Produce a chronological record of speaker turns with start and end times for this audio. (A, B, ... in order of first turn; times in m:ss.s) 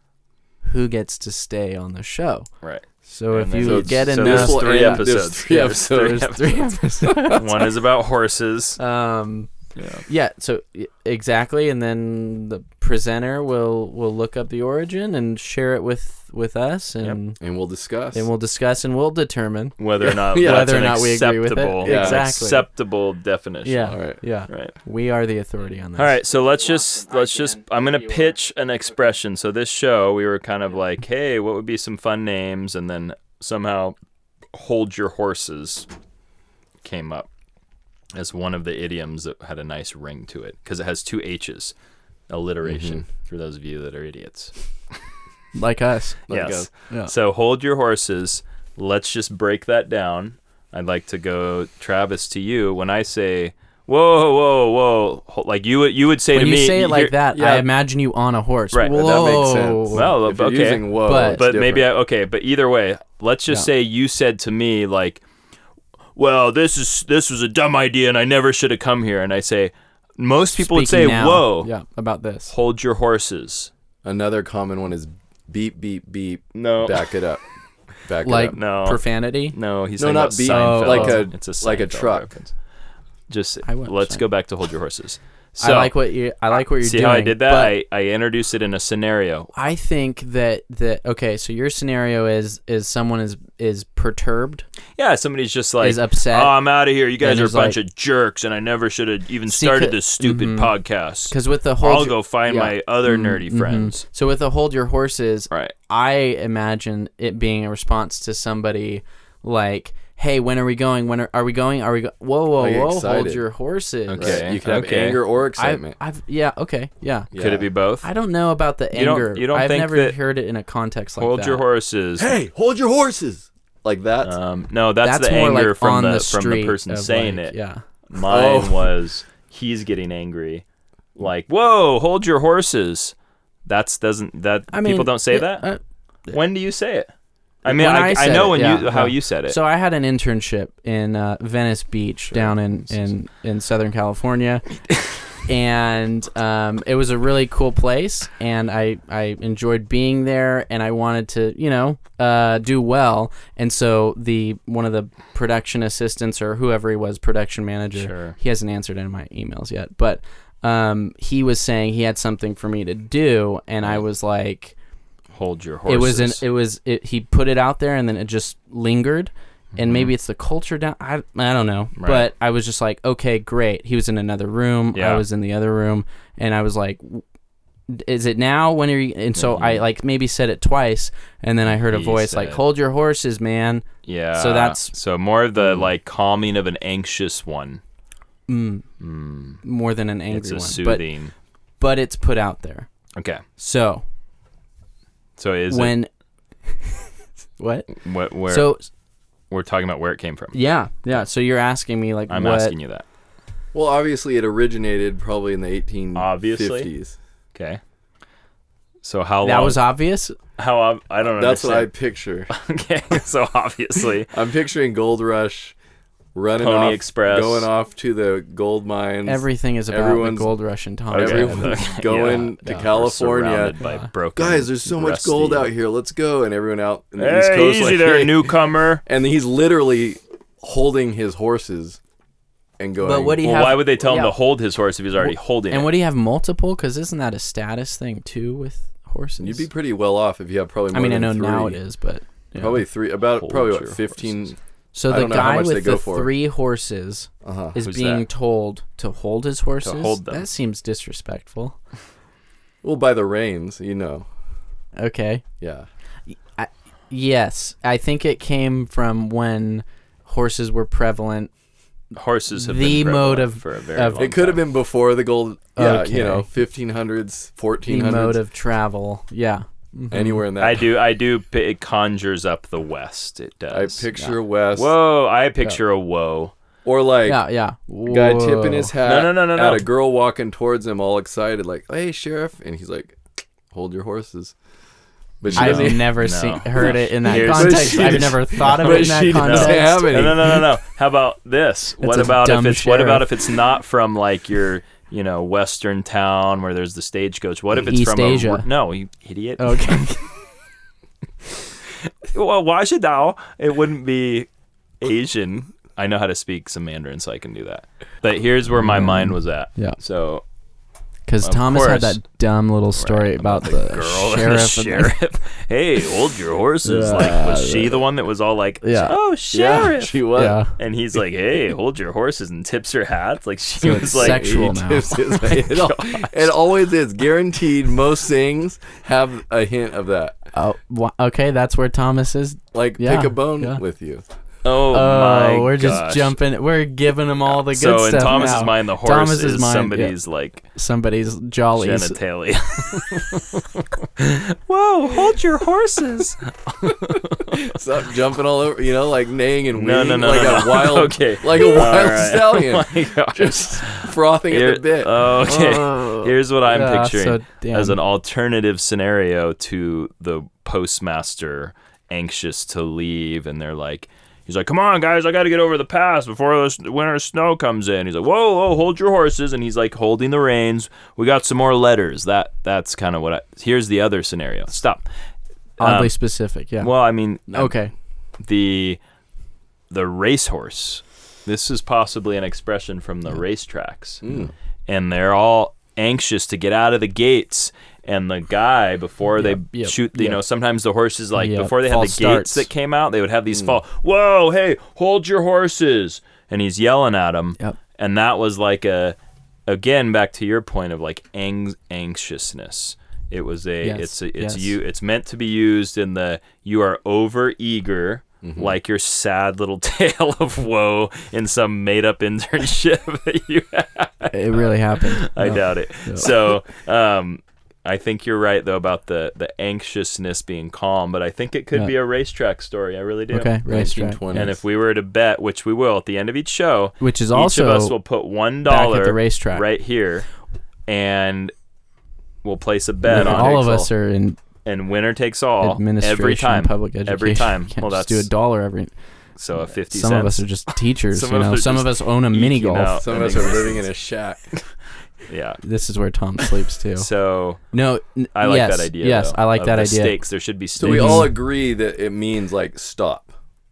0:00.6-0:02.5 A
0:02.6-0:06.7 B
0:03.1-0:07.7 A
0:03.6-0:06.3 C
0:07.1-0:07.4 C
0:07.2-0:08.8 B
0:08.8-0:09.5 A
0:09.8-0:10.0 B
0:10.1-0:17.4 A
0:17.4-0:18.3 C
0:18.1-0:19.8 A
0:19.8-0:24.0 B
0:20.0-0:20.7 C
0:20.4-0:22.7 A
0:21.8-0:22.2 C
0:23.6-0:26.2 A
0:23.9-0:24.2 C
0:24.5-0:24.7 B
0:26.0-0:34.0 B
0:34.5-0:35.9 B
0:36.8-0:37.3 B
0:38.2-0:41.7 B
0:42.3-0:44.5 B
0:42.6-0:43.0 C
0:45.6-0:46.2 A
0:46.3-0:46.7 C
0:46.3-0:57.2 B
0:56.3-1:00.1 A
0:57.3-0:57.7 C
0:58.9-1:01.9 C
0:59.9-1:05.2 B
1:01.0-1:01.4 A
1:06.2-1:11.7 B
1:10.6-1:12.5 A
1:12.5-1:13.7 B
1:14.0-1:17.4 C
1:16.6-1:17.0 B
1:18.1-1:18.6 C
1:18.2-1:19.6 A
1:18.5-1:19.0 B
1:19.5-1:22.5 B
1:20.0-1:22.3 C
1:20.5-1:21.3 A
1:23.3-1:25.9 B
1:23.6-1:24.2 A
1:25.6-1:27.8 A
1:26.5-1:29.5 B
1:29.5-1:34.7 A
1:35.0-1:44.0 B
1:35.8-1:36.6 A
1:37.2-1:37.8 A
1:39.5-1:40.7 A
1:41.3-1:54.5 A
1:52.6-1:53.4 C
1:54.1-1:55.2 B
1:54.2-1:56.0 C
1:55.6-1:57.3 A
1:57.3-1:57.7 C
1:57.3-1:58.1 B
1:58.0-2:01.6 A
1:58.9-2:00.2 B
2:01.2-2:02.4 B
2:02.2-2:04.4 C
2:04.2-2:07.6 B
2:05.0-2:07.8 A
2:08.1-2:10.6 B
2:08.2-2:08.9 C
2:11.2-2:13.1 B
2:13.7-2:15.7 B
2:14.7-2:16.4 A
2:16.3-2:17.1 B
2:17.6-2:19.6 B
2:17.7-2:24.7 A
2:25.5-2:44.8 A
2:37.9-2:38.4 B
2:45.3-2:46.4 B
2:45.9-2:57.2 A
2:49.8-2:50.1 B
2:52.0-2:52.3 B
2:55.0-2:55.2 B
2:57.9-3:04.9 A
2:59.4-2:59.8 B
3:01.8-3:02.6 B
3:04.0-3:07.8 B
3:08.5-3:08.8 A
3:09.0-3:09.6 B
3:09.6-3:11.0 A
3:10.3-3:11.3 B
3:11.8-3:12.9 A
3:13.2-3:13.4 B
3:13.6-3:14.0 A
3:15.4-3:16.0 B
3:15.7-3:16.1 A
3:17.6-3:18.0 A
3:18.0-3:18.7 B
3:18.5-3:18.8 A
3:19.5-3:20.6 B
3:20.5-3:22.7 A
3:22.3-3:23.0 B
3:23.7-3:27.2 C
3:26.2-3:26.9 B
3:27.6-3:27.8 B
3:29.0-3:29.9 B
3:29.4-3:30.4 A
3:30.6-3:31.9 B
3:31.4-3:32.5 C
3:32.5-3:34.3 B
3:34.3-3:35.8 C
3:36.4-3:40.5 C
3:36.6-3:37.7 B
3:39.3-3:41.8 A
3:41.1-3:43.8 C
3:41.1-3:45.7 B
3:43.8-3:44.1 A
3:44.4-3:48.5 C
3:47.2-3:49.0 B
3:49.0-3:52.0 C
3:52.8-3:53.5 C
3:53.0-3:54.4 A
3:53.4-3:55.9 B
3:55.2-3:59.7 A
3:59.4-4:01.8 C
4:00.9-4:02.8 A
4:02.6-4:04.6 C
4:03.2-4:04.4 B
4:04.9-4:11.8 A
4:05.1-4:06.3 C
4:07.4-4:07.8 C
4:07.8-4:08.3 B
4:09.8-4:10.5 B
4:12.8-4:14.3 C
4:15.0-4:15.4 A
4:15.6-4:15.9 C
4:16.3-4:21.5 A
4:22.1-4:24.6 B
4:22.6-4:24.4 A
4:24.2-4:28.4 C
4:25.8-4:26.5 A
4:27.9-4:30.4 A
4:30.1-4:30.9 C
4:30.6-4:34.0 B
4:33.7-4:34.9 C
4:34.8-4:36.5 B
4:36.8-4:37.4 C
4:37.3-4:38.9 A
4:38.1-4:43.2 C
4:39.0-4:39.8 B
4:43.7-4:44.6 C
4:45.4-4:46.2 C
4:45.5-5:00.1 B
4:45.6-4:50.2 A
4:46.8-4:50.7 C
4:52.0-4:53.3 A
4:57.8-4:58.7 A
4:59.6-5:00.3 A
5:02.3-5:04.5 B
5:05.0-5:10.4 B
5:08.8-5:10.0 A
5:11.3-5:15.2 A
5:11.4-5:12.2 B
5:13.0-5:20.3 B
5:16.8-5:18.0 A
5:18.8-5:19.2 A
5:19.5-5:20.6 C
5:20.3-5:20.7 A
5:20.8-5:26.5 B
5:23.8-5:25.2 A
5:23.9-5:30.4 C
5:30.5-5:33.8 A
5:32.7-5:34.2 C
5:34.6-5:36.4 B
5:34.9-5:40.2 A
5:37.5-5:40.6 B
5:40.8-5:42.2 A
5:41.8-5:47.8 B
5:47.5-5:55.2 C
5:49.8-6:15.1 B
5:55.5-5:58.0 A
6:15.8-6:16.9 A
6:15.8-6:16.1 B
6:16.8-6:17.7 B
6:17.5-6:17.9 A
6:18.4-6:19.0 B
6:19.9-6:24.2 B
6:24.2-6:24.5 C
6:24.9-6:39.2 B
6:29.4-6:30.4 A
6:31.4-6:32.7 A
6:39.7-7:03.6 B
6:43.8-6:44.7 A
6:48.4-6:48.8 C
6:54.3-6:56.3 A
7:03.3-7:04.2 A
7:03.7-7:04.6 C
7:04.3-7:10.3 B
7:07.0-7:08.0 A
7:08.7-7:09.6 A
7:10.9-7:11.5 B
7:12.4-7:13.9 B
7:13.1-7:14.4 A
7:13.2-7:13.5 C
7:14.6-7:18.3 B
7:15.6-7:18.9 A
7:19.4-7:20.4 B
7:19.5-7:23.0 A
7:21.0-7:23.9 B
7:22.8-7:24.5 C
7:25.3-7:25.6 B
7:25.6-7:27.1 A
7:26.5-7:27.6 B
7:27.7-7:30.2 A
7:28.4-7:31.3 B
7:30.8-7:33.3 C
7:30.8-7:31.3 A